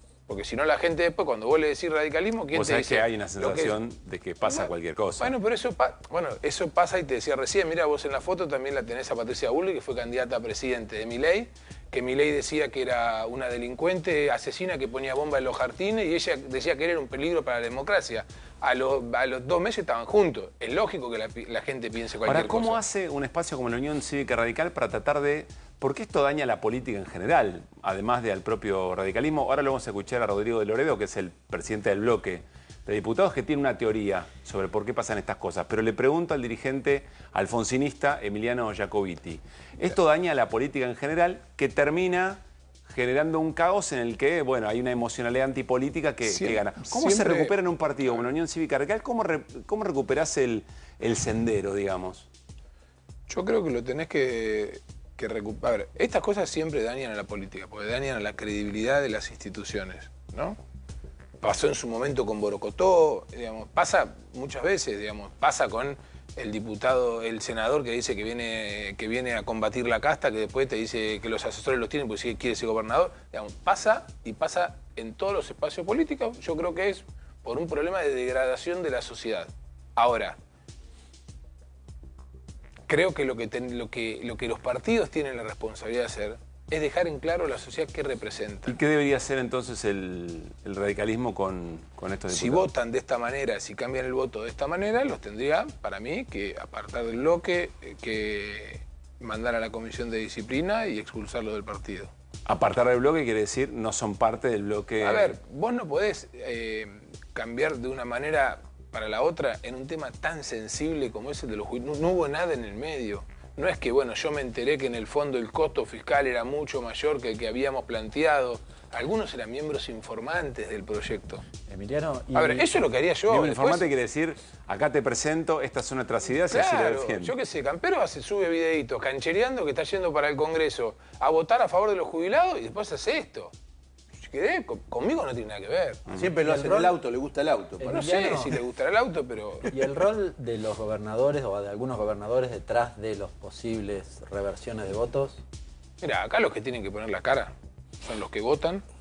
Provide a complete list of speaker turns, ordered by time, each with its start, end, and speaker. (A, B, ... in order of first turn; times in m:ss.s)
0:00.3-0:03.8 A
0:02.5-0:05.3 B
0:04.4-0:22.8 A
0:22.2-0:52.3 B
0:46.2-0:47.6 A
0:53.3-1:00.6 A
1:01.4-1:20.4 A
1:22.9-1:28.7 A
1:28.6-1:32.7 B
1:32.3-1:42.1 A
1:42.4-1:45.4 B
1:45.0-2:01.4 A
2:01.7-2:02.8 C
2:02.3-2:03.9 A
2:03.3-2:07.3 B
2:06.4-2:13.5 A
2:14.2-2:16.1 A
2:16.1-2:18.5 D
2:16.4-2:17.0 C
2:17.8-2:18.5 C
2:17.8-2:19.7 A
2:19.7-2:25.4 C
2:26.0-2:28.8 A